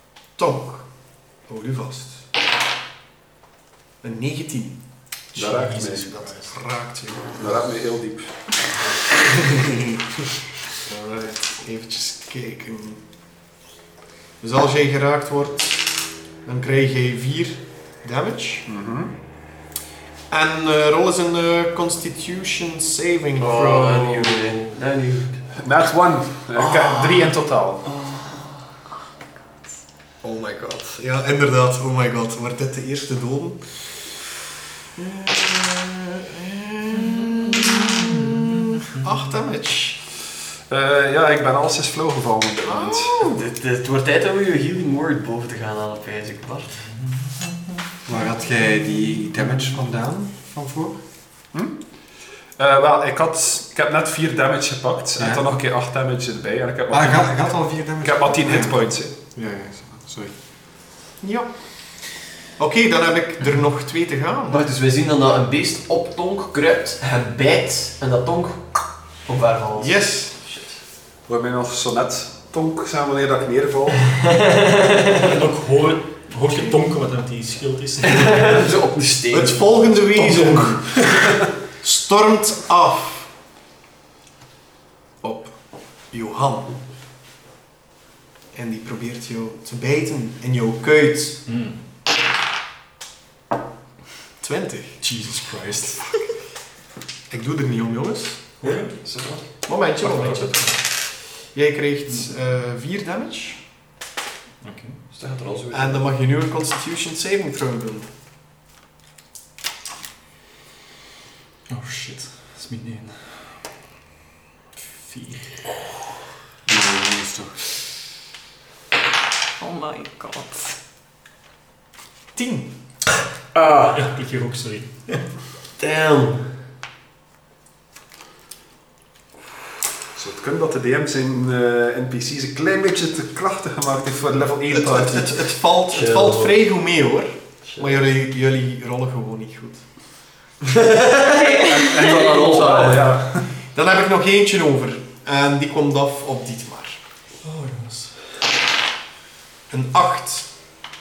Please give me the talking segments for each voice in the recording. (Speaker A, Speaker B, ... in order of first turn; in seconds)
Speaker A: 0.4-0.9, 1.4-2.3, 4.0-4.8, 5.3-7.5, 9.3-10.0, 10.8-13.0, 14.4-18.7, 20.3-24.6, 30.2-34.0, 35.0-40.0, 42.6-43.4, 61.2-61.5, 62.6-64.6, 69.8-70.3, 76.5-76.8, 79.3-81.1, 81.8-83.3, 85.2-85.6, 86.1-86.8, 88.5-91.4, 94.4-96.0, 97.3-98.6, 99.6-103.6, 105.7-108.1, 122.3-122.7, 134.7-139.8, 143.7-147.0, 149.7-150.5
Speaker B: 5.3-6.1, 7.3-8.5, 18.7-19.1, 25.6-27.8, 40.7-43.2, 51.5-51.9, 52.5-59.1, 71.3-74.2, 130.1-135.4, 141.6-143.5
Speaker C: 5.4-6.5, 75.2-78.6, 80.1-81.0, 91.5-91.8, 95.3-96.0, 98.6-98.9, 100.0-100.8, 104.6-105.0, 111.7-113.6, 114.9-115.6, 123.8-125.2, 147.4-148.1
Speaker D: 23.4-25.5, 27.8-28.6, 43.2-46.8, 64.5-70.8, 74.1-75.3, 78.0-79.9, 98.7-99.5, 105.1-106.1, 123.5-124.0, 125.8-126.5, 135.9-136.5, 137.6-138.0, 140.7-143.2
Speaker E: 48.0-51.0, 55.2-55.4, 56.9-60.3, 116.7-117.5
Speaker F: 119.6-120.8, 141.3-142.3